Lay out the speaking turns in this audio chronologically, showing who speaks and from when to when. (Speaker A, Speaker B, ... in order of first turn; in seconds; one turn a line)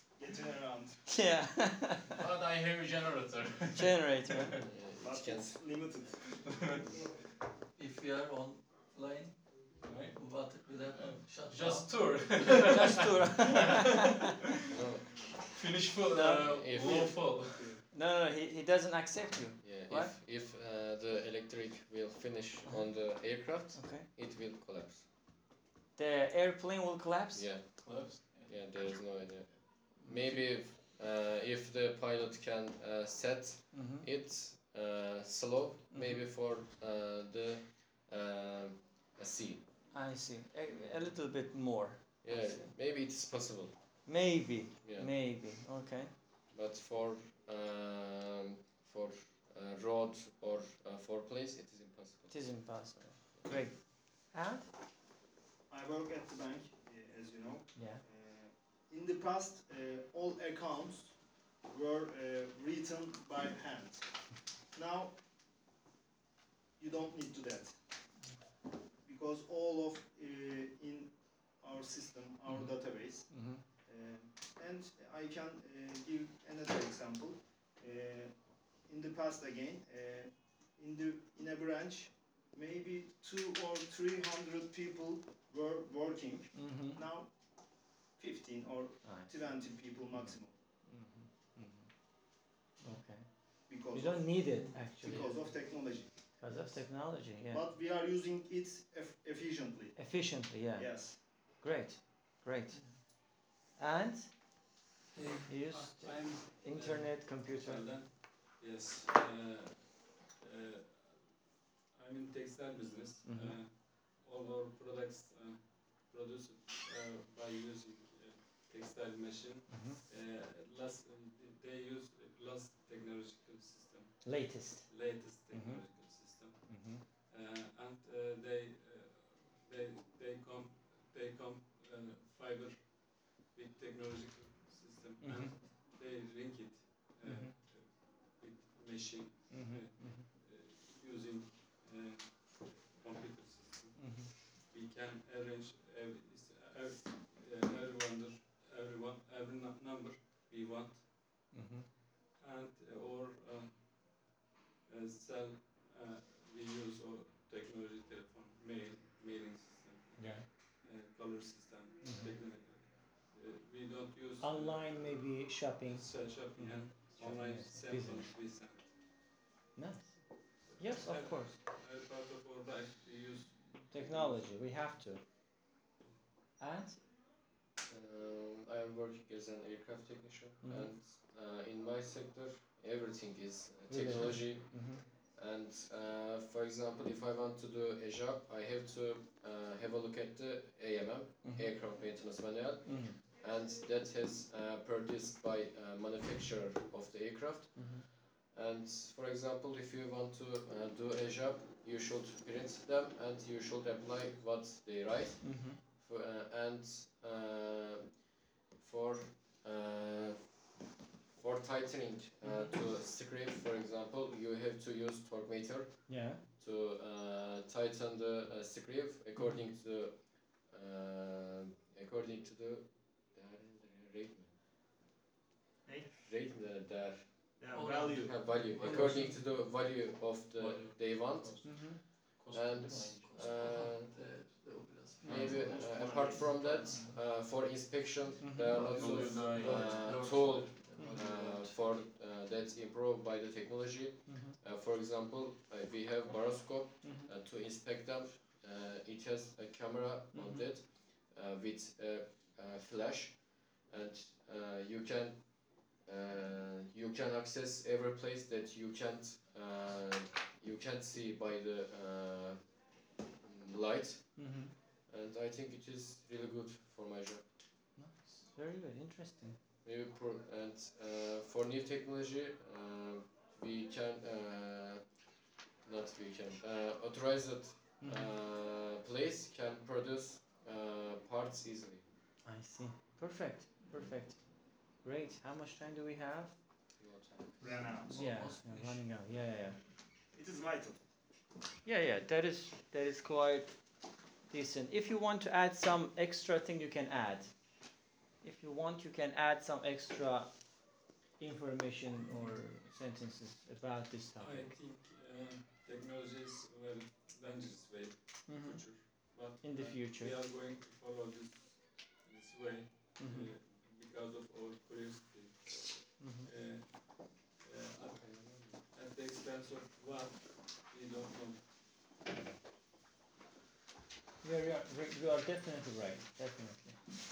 Speaker A: 0.2-1.0
Speaker B: 1.1-2.2
Speaker C: 2.1-4.6
Speaker B: 3.8-4.6
Speaker D: 4.6-5.8
Speaker A: 5.0-6.4
Speaker C: 6.5-6.8
Speaker E: 7.8-9.4
Speaker F: 9.8-10.2
Speaker E: 10.1-12.6
Speaker C: 10.9-14.3
Speaker B: 12.7-14.3
Speaker D: 14.7-15.2
Speaker C: 15.5-17.8
Speaker B: 16.1-16.5
Speaker D: 16.4-17.4
Speaker B: 17.9-20.1
Speaker D: 19.6-25.1
Speaker B: 22.6-24.1
Speaker B: 25.9-27.5
Speaker D: 27.3-39.6
Speaker C: 27.8-28.5
Speaker B: 30.0-30.4
Speaker B: 33.7-34.1
Speaker B: 35.9-36.2
Speaker B: 39.9-42.7
Speaker D: 42.2-43.7
Speaker B: 44.0-46.1
Speaker D: 44.8-45.1
Speaker D: 46.5-52.3
Speaker B: 52.3-54.6
Speaker A: 55.7-64.0
Speaker B: 57.7-58.0
Speaker A: 64.7-65.2
Speaker A: 66.8-67.8
Speaker A: 69.0-78.3
Speaker B: 72.5-72.7
Speaker B: 73.3-73.6
Speaker A: 78.9-87.3
Speaker B: 86.5-87.0
Speaker A: 88.2-90.5
Speaker B: 89.0-89.3
Speaker B: 90.8-91.9
Speaker B: 92.8-93.3
Speaker A: 93.7-94.3
Speaker B: 93.9-95.4
Speaker A: 95.0-96.1
Speaker B: 96.4-97.6
Speaker A: 97.5-99.9
Speaker B: 100.0-104.3
Speaker A: 100.7-101.2
Speaker F: 105.1-111.3
Speaker B: 105.5-107.9
Speaker F: 111.9-151.0
Speaker B: 113.2-113.6
Speaker B: 119.7-120.0
Speaker B: 124.2-125.8
Speaker B: 126.7-127.0
Speaker B: 135.2-135.6
Speaker B: 137.2-137.5
Speaker B: 139.5-140.2
Speaker B: 143.9-144.3
Speaker B: 151.5-151.9
Speaker F: 152.4-153.9
Speaker F: 154.9-165.2
Speaker B: 160.2-160.4
Speaker B: 162.0-162.4
Speaker B: 164.4-168.3
Speaker F: 165.8-168.9
Speaker B: 169.8-170.2
Speaker F: 170.7-174.4
Speaker B: 170.8-171.6
Speaker B: 173.9-175.2
Speaker B: 176.6-177.0
Speaker D: 177.8-210.6
Speaker B: 180.6-180.9
Speaker B: 183.9-185.0
Speaker B: 191.4-191.7
Speaker B: 192.8-193.2
Speaker B: 197.8-198.0
Speaker B: 205.4-205.8
Speaker D: 211.3-224.5
Speaker B: 212.4-212.8
Speaker B: 216.1-216.4
Speaker A: 225.8-226.2
Speaker D: 226.2-234.2
Speaker A: 227.6-228.4
Speaker E: 227.7-229.4
Speaker C: 228.8-230.0
Speaker C: 230.5-233.8
Speaker B: 231.6-232.0
Speaker E: 233.1-237.1
Speaker B: 235.2-235.5
Speaker D: 235.2-262.6
Speaker C: 235.3-235.6
Speaker A: 235.5-236.9
Speaker B: 238.4-238.9
Speaker C: 238.7-241.2
Speaker E: 238.7-241.8
Speaker B: 244.3-244.6
Speaker B: 247.0-247.3
Speaker B: 250.3-250.7
Speaker D: 263.4-267.4
Speaker B: 264.4-264.7
Speaker B: 267.9-269.6
Speaker D: 269.8-275.0
Speaker D: 275.8-282.0
Speaker B: 278.0-278.3
Speaker B: 282.4-286.5
Speaker D: 287.0-287.6
Speaker A: 287.6-288.2
Speaker E: 287.7-289.0
Speaker B: 288.1-289.8
Speaker A: 290.3-291.0
Speaker B: 291.8-293.7
Speaker B: 294.5-297.5
Speaker B: 298.4-300.5
Speaker B: 301.4-304.7
Speaker F: 304.4-321.6
Speaker B: 308.5-310.3
Speaker B: 313.2-313.5
Speaker B: 316.2-316.5
Speaker D: 318.1-318.8
Speaker B: 324.4-327.0